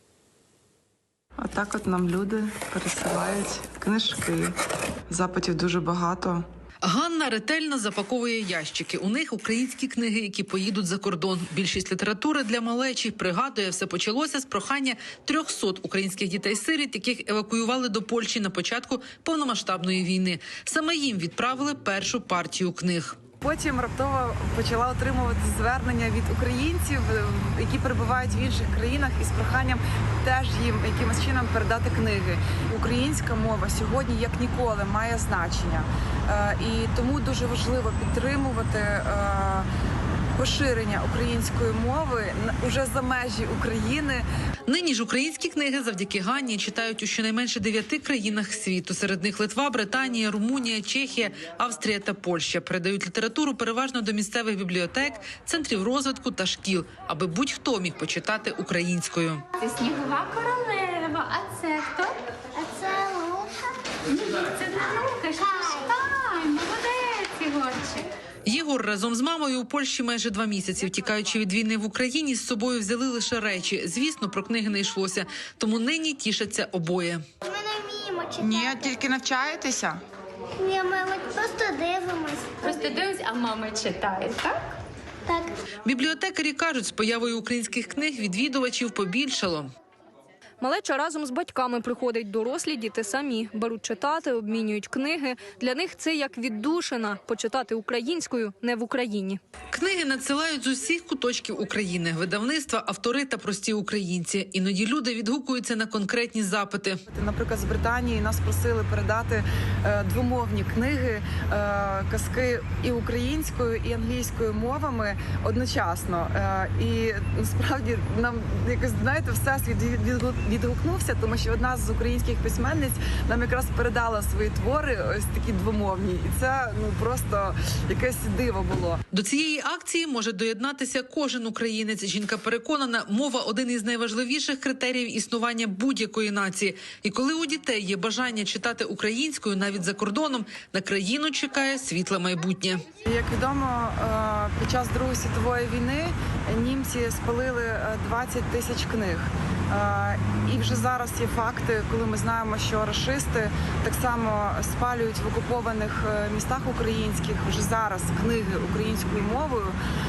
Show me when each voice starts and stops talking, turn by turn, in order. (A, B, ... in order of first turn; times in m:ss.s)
0:01.4-0:04.6 A
0:05.1-0:06.4 A
0:06.8-0:23.2 B
0:23.4-0:39.7 A
0:40.3-0:44.2 A
0:44.6-0:59.4 B
0:59.6-1:02.2 C
1:02.5-1:03.7 D
1:04.1-1:08.1 C
1:08.4-1:17.2 B
1:17.4-1:19.0 D
1:18.4-1:20.0 A
1:20.6-1:22.7 D
1:22.6-1:24.6 C
1:25.2-1:25.6 D
1:25.8-1:29.7 B
1:30.6-1:39.4 E
1:39.7-1:47.0 B
1:47.1-2:09.0 A
2:09.1-2:22.9 B
2:23.0-2:39.8 A